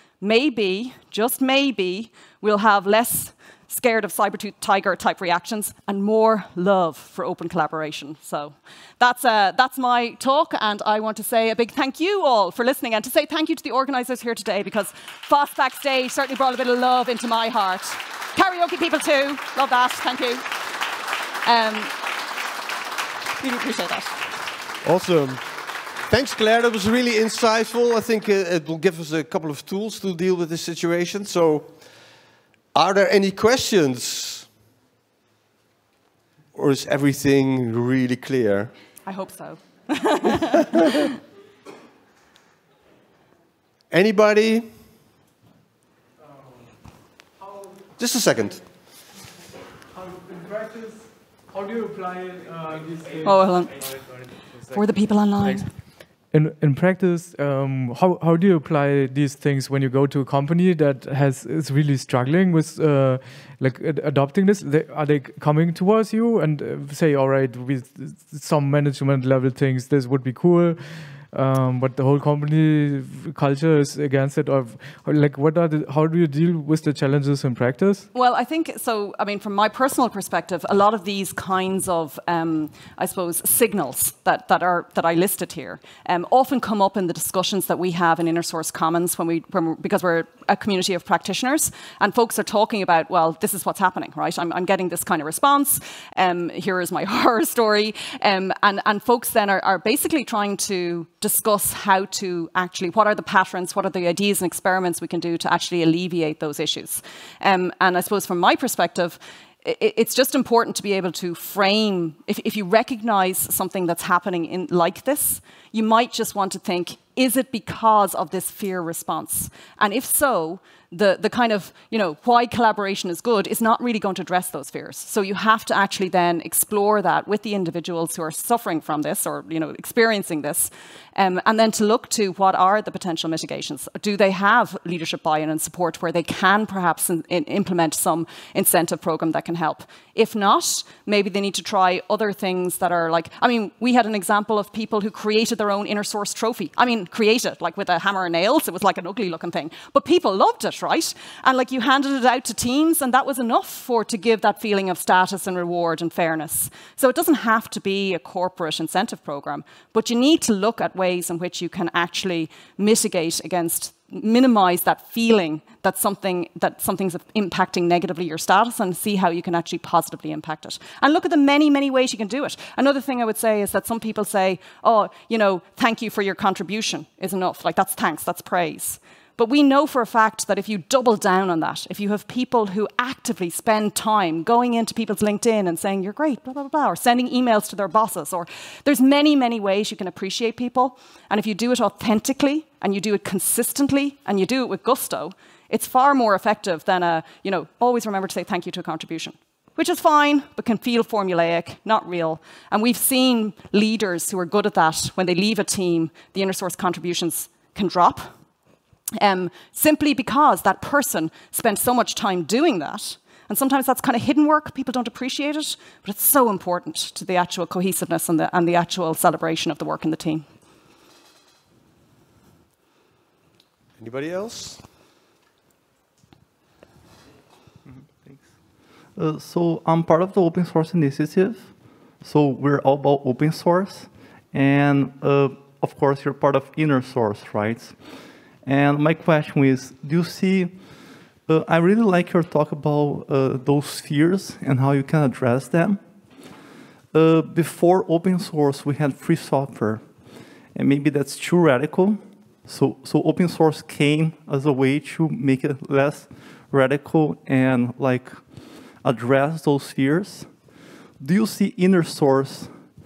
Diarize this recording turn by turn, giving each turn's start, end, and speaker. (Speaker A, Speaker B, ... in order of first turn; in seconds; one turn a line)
Speaker A: 0.2-20.4
Speaker A: 21.4-22.0
Speaker A: 23.4-24.2
Speaker B: 24.8-25.5
Speaker B: 26.1-31.8
Speaker B: 32.7-34.5
Speaker B: 36.5-38.7
Speaker A: 39.1-40.9
Speaker B: 43.9-44.7
Speaker B: 48.0-48.6
Speaker C: 50.0-53.3
Speaker A: 53.2-53.9
Speaker A: 54.7-55.7
Speaker C: 56.3-78.1
Speaker A: 78.1-208.3
Speaker A: 209.2-220.5
Speaker B: 224.0-224.8
Speaker D: 227.9-228.4
Speaker D: 229.2-231.7
Speaker D: 232.2-238.0
Speaker D: 238.6-240.8
Speaker D: 241.5-246.0
Speaker D: 247.1-250.0
Speaker D: 250.7-258.4
Speaker D: 259.0-260.5
Speaker D: 261.2-262.7